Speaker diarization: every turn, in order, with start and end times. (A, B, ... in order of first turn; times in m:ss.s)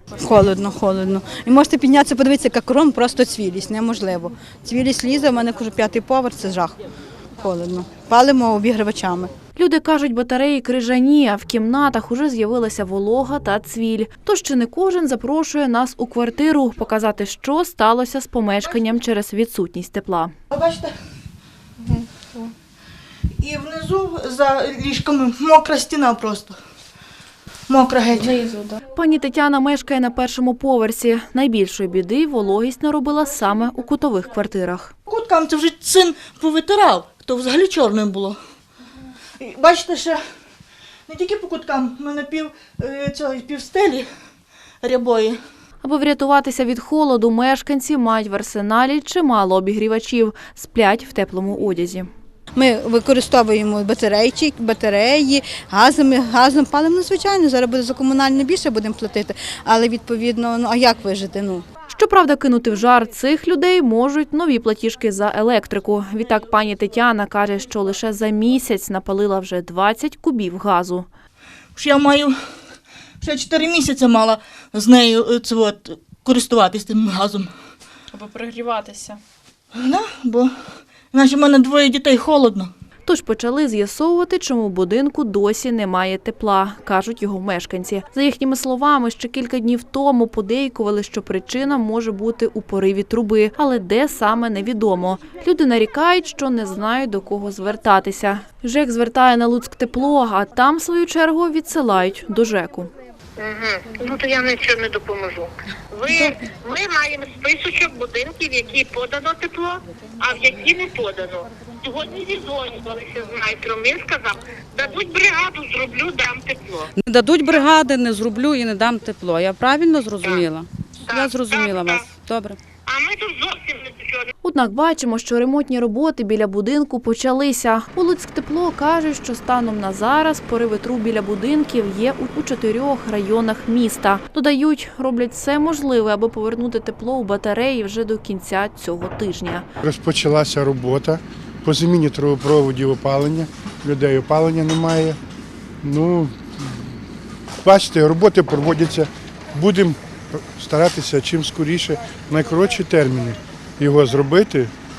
0:00.2-0:06.7 A
0:07.4-0:09.3 A
0:09.6-0:20.3 B
0:20.5-0:20.9 C
0:21.8-0:22.5 D
0:23.4-0:26.6 C
0:27.7-0:28.5 C
0:28.2-0:28.8 D
0:28.9-0:34.9 B
0:35.1-0:38.4 C
0:39.4-0:40.2 C
0:41.1-0:44.1 C
0:44.8-0:45.4 C
0:45.8-0:52.1 B
0:52.5-1:01.6 A
1:01.9-1:11.1 B
1:11.7-1:12.4 C
1:13.2-1:17.5 C
1:18.1-1:19.2 D
1:19.7-1:20.5 C
1:21.1-1:22.7 C
1:23.0-1:42.9 B
1:43.4-1:56.9 E
1:57.0-2:02.6 F
1:57.4-1:57.7 E
2:01.0-2:02.0 E
2:02.8-2:04.3 E
2:04.4-2:19.6 B
2:19.8-2:25.2 G
2:25.8-2:26.8 G
2:27.6-2:34.7 G